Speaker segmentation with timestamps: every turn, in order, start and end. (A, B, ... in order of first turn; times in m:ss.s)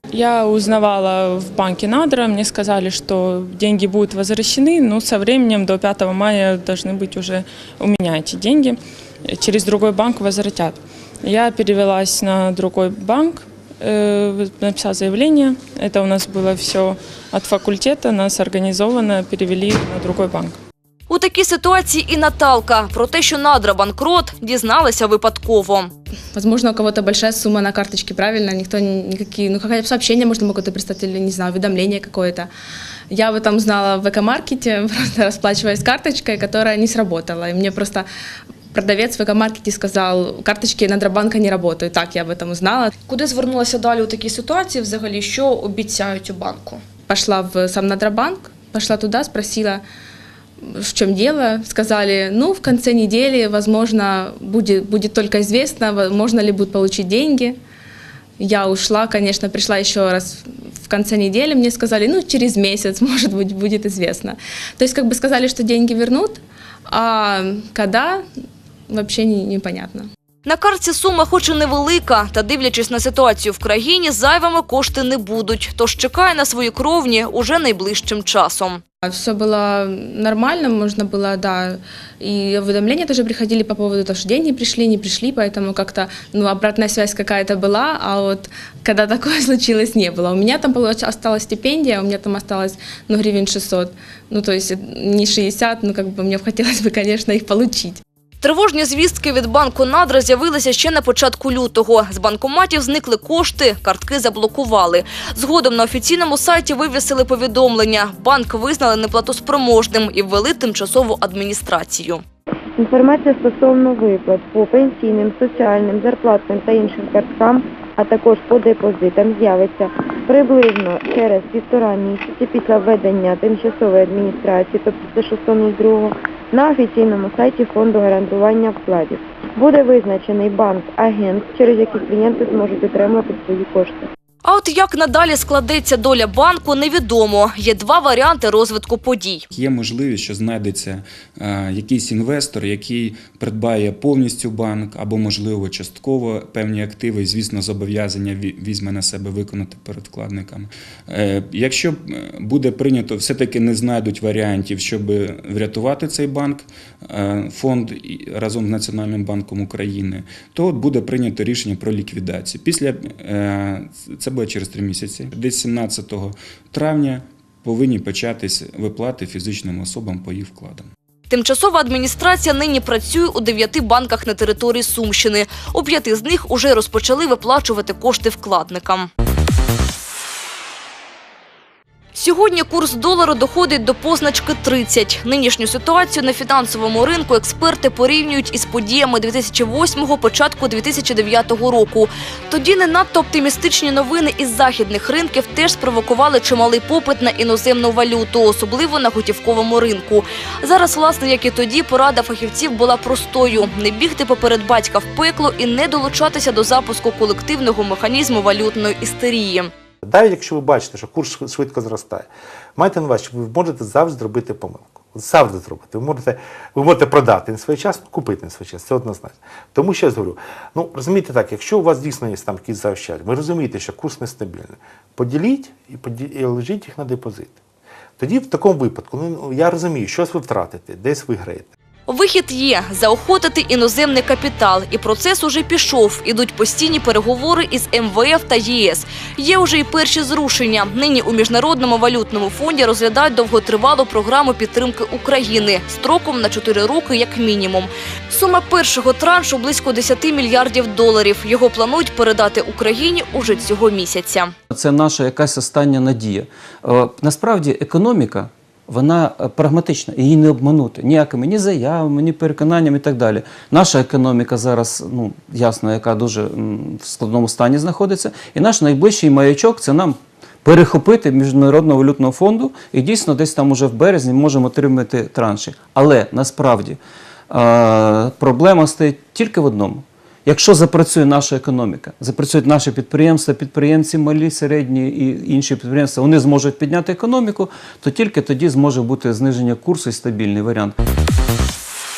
0:00.1-0:08.8 A
0:09.3-0:20.6 A
0:21.1-0:25.9 B
0:26.3-0:32.5 C
0:33.1-0:38.0 C
0:38.7-0:42.9 C
0:43.1-0:46.8 B
0:47.1-0:49.8 C
0:50.7-0:57.6 C
0:58.4-1:08.2 C
1:08.9-1:10.0 C
1:10.4-1:18.8 B
1:19.0-1:38.0 C
1:38.4-1:52.2 B
1:52.8-2:14.1 D
2:14.4-2:19.4 B
2:19.5-2:50.9 E
2:51.3-2:59.1 B
3:02.1-3:29.7 B
3:30.0-3:47.6 F
3:48.2-3:51.7 F
3:52.1-4:14.5 B
4:14.7-4:37.0 G
4:37.5-4:50.9 G